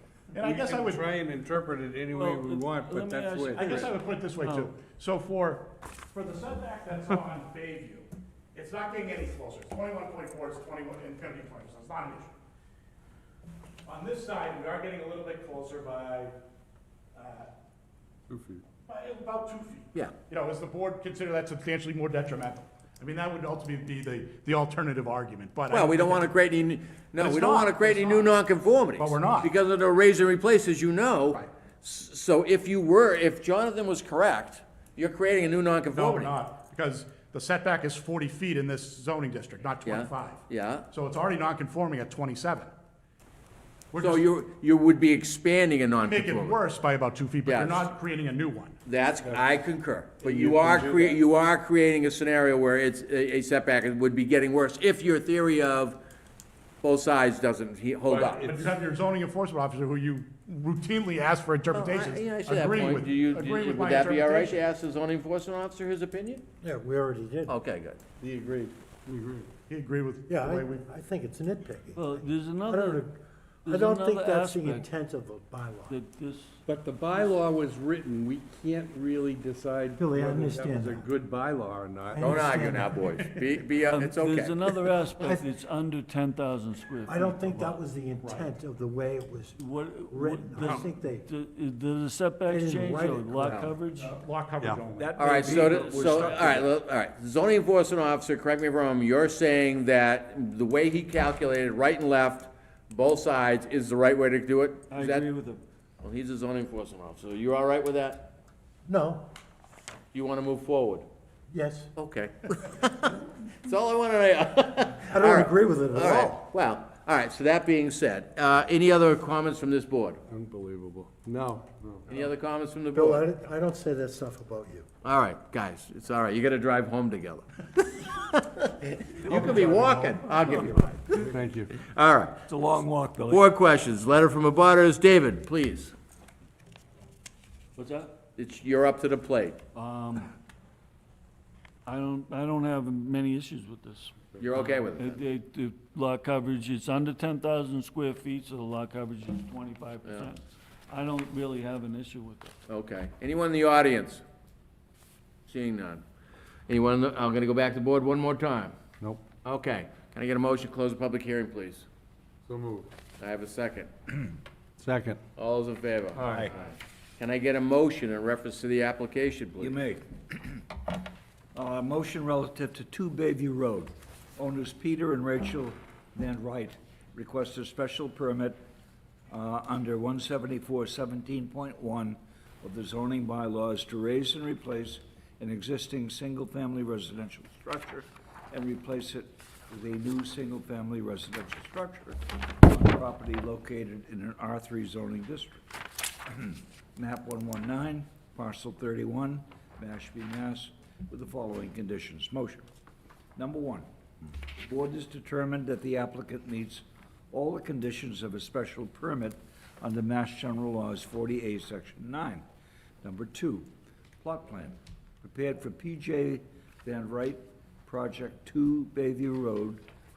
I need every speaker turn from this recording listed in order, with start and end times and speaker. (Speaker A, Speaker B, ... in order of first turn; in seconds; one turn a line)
Speaker A: 0.3-1.1
Speaker B: 0.4-3.9
Speaker C: 2.1-4.7
Speaker A: 3.5-12.3
Speaker A: 13.9-16.3
Speaker A: 17.1-17.5
Speaker B: 18.3-18.6
Speaker A: 18.8-26.3
Speaker D: 25.7-36.4
Speaker A: 27.2-28.4
Speaker A: 29.0-29.5
Speaker A: 35.9-42.7
Speaker D: 39.8-40.9
Speaker A: 43.9-44.2
Speaker D: 44.0-46.6
Speaker A: 46.0-48.8
Speaker D: 47.5-47.9
Speaker D: 48.8-56.0
Speaker B: 49.2-49.6
Speaker B: 50.2-51.2
Speaker D: 56.8-58.5
Speaker A: 58.0-64.6
Speaker B: 58.3-58.7
Speaker D: 61.7-66.4
Speaker E: 66.6-67.6
Speaker D: 67.5-68.0
Speaker B: 68.2-69.5
Speaker A: 69.7-70.9
Speaker E: 70.3-73.2
Speaker C: 72.0-73.1
Speaker C: 73.7-74.9
Speaker E: 73.7-76.0
Speaker C: 75.9-76.6
Speaker B: 76.7-82.4
Speaker E: 80.0-81.1
Speaker E: 82.1-83.0
Speaker D: 82.2-84.7
Speaker A: 82.9-83.6
Speaker C: 83.9-87.8
Speaker E: 85.2-85.5
Speaker E: 87.1-91.3
Speaker A: 88.2-88.5
Speaker C: 89.6-94.2
Speaker E: 92.5-93.6
Speaker D: 93.4-93.7
Speaker A: 94.0-95.2
Speaker F: 95.0-96.8
Speaker D: 95.2-105.3
Speaker C: 95.7-96.5
Speaker C: 104.9-105.6
Speaker D: 106.0-108.3
Speaker E: 108.9-109.2
Speaker D: 110.1-111.1
Speaker E: 111.5-111.9
Speaker D: 112.0-120.2
Speaker E: 115.1-116.4
Speaker B: 120.3-122.3
Speaker D: 122.1-123.3
Speaker E: 122.9-124.9
Speaker D: 125.0-128.4
Speaker E: 128.8-131.0
Speaker D: 129.2-132.4
Speaker B: 131.2-131.7
Speaker C: 132.5-133.5
Speaker D: 133.3-135.9
Speaker C: 137.8-138.2
Speaker D: 138.4-139.6
Speaker C: 139.7-140.3
Speaker C: 141.8-152.5
Speaker D: 144.4-145.2
Speaker D: 150.0-150.3
Speaker D: 152.7-154.2
Speaker D: 155.4-156.0
Speaker D: 156.7-158.8
Speaker D: 159.4-161.8
Speaker B: 162.4-162.9
Speaker D: 163.2-163.9
Speaker B: 164.8-165.2
Speaker D: 165.3-169.8
Speaker B: 166.1-166.5
Speaker F: 169.6-170.6
Speaker F: 171.5-178.6
Speaker F: 179.3-195.7
Speaker F: 196.3-202.7
Speaker F: 203.3-203.8
Speaker F: 204.6-212.4
Speaker F: 213.0-213.7
Speaker F: 214.2-219.8